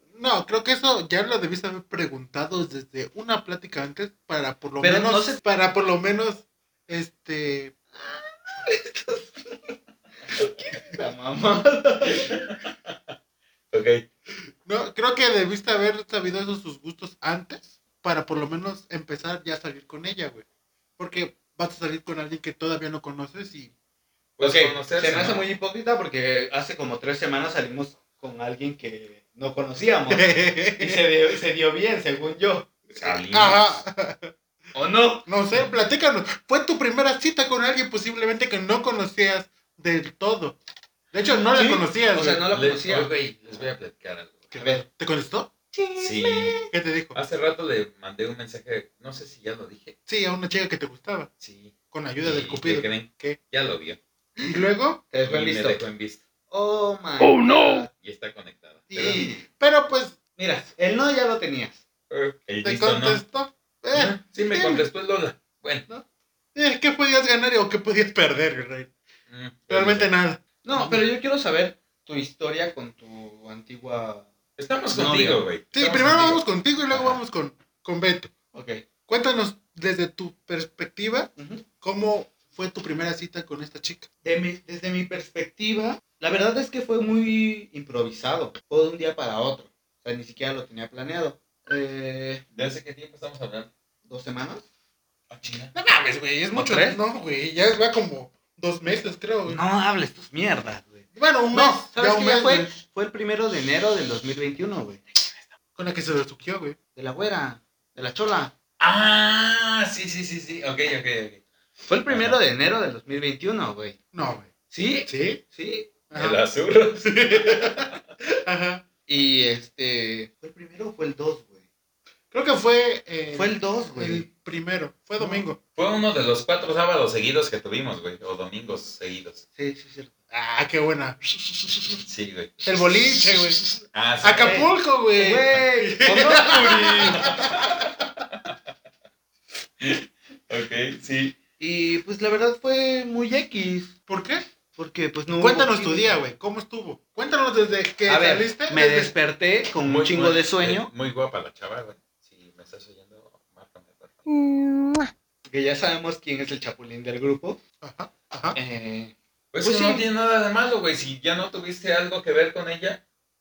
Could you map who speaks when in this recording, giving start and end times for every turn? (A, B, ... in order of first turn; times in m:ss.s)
0:00.1-0:07.7 A
0:04.8-0:05.4 B
0:07.9-0:09.8 B
0:10.3-0:12.4 B
0:12.1-0:13.0 C
0:13.7-0:14.1 C
0:14.6-0:20.4 A
0:21.0-0:23.7 A
0:24.4-0:25.5 C
0:24.4-0:32.8 B
0:30.1-0:31.0 A
0:33.0-0:33.8 C
0:33.3-0:34.3 A
0:34.8-0:35.3 B
0:35.3-0:40.6 A
0:41.1-0:42.5 A
0:41.5-0:43.1 B
0:42.5-0:44.5 C
0:44.5-0:45.5 A
0:44.6-0:44.8 B
0:45.7-0:46.7 B
0:46.0-0:46.6 C
0:46.7-0:47.2 A
0:47.1-0:50.0 C
0:50.1-0:51.3 A
0:51.4-0:54.0 C
0:51.9-0:53.4 A
0:54.4-0:55.0 A
0:55.1-0:55.8 B
0:55.2-0:56.2 C
0:56.5-0:57.9 B
0:58.0-0:59.3 C
0:58.9-1:00.2 A
0:59.0-0:59.4 B
1:00.4-1:01.8 B
1:02.1-1:03.2 C
1:02.6-1:04.8 A
1:03.9-1:05.9 C
1:05.9-1:08.9 A
1:09.3-1:10.1 C
1:09.7-1:11.0 A
1:10.6-1:14.3 B
1:14.6-1:17.2 C
1:14.9-1:15.5 B
1:15.7-1:18.3 A
1:18.5-1:18.8 B
1:19.1-1:24.1 A
1:21.4-1:21.6 B
1:24.2-1:32.4 B
1:32.5-1:33.7 C
1:34.1-1:34.6 B
1:35.3-1:35.7 C
1:35.7-1:39.6 A
1:36.5-1:37.0 B
1:39.5-1:45.0 B
1:41.2-1:42.8 A
1:45.8-1:46.8 A
1:47.0-1:48.5 B
1:48.8-1:51.4 C
1:51.9-1:54.0 B
1:52.1-1:52.4 C
1:54.1-1:54.5 A
1:54.7-1:55.9 B
1:55.1-1:55.4 A
1:56.1-1:56.4 A
1:56.2-1:58.0 C
1:57.0-1:58.8 A
1:59.1-2:01.6 B
2:02.3-2:05.6 A
2:03.3-2:04.3 B
2:05.8-2:09.4 C
2:09.6-2:10.1 B
2:10.3-2:12.0 A
2:12.0-2:12.6 C
2:12.6-2:13.6 A
2:13.9-2:14.7 C
2:14.2-2:17.7 A
2:14.4-2:17.4 B
2:17.2-2:17.9 C
2:19.8-2:21.4 C
2:21.6-2:24.0 B
2:24.1-2:24.5 A
2:24.8-2:26.1 B
2:25.4-2:29.1 A
2:28.1-2:30.9 B
2:29.8-2:34.2 C
2:35.5-2:37.6 B
2:37.8-2:38.6 A
2:38.5-2:40.0 B
2:39.5-2:43.0 C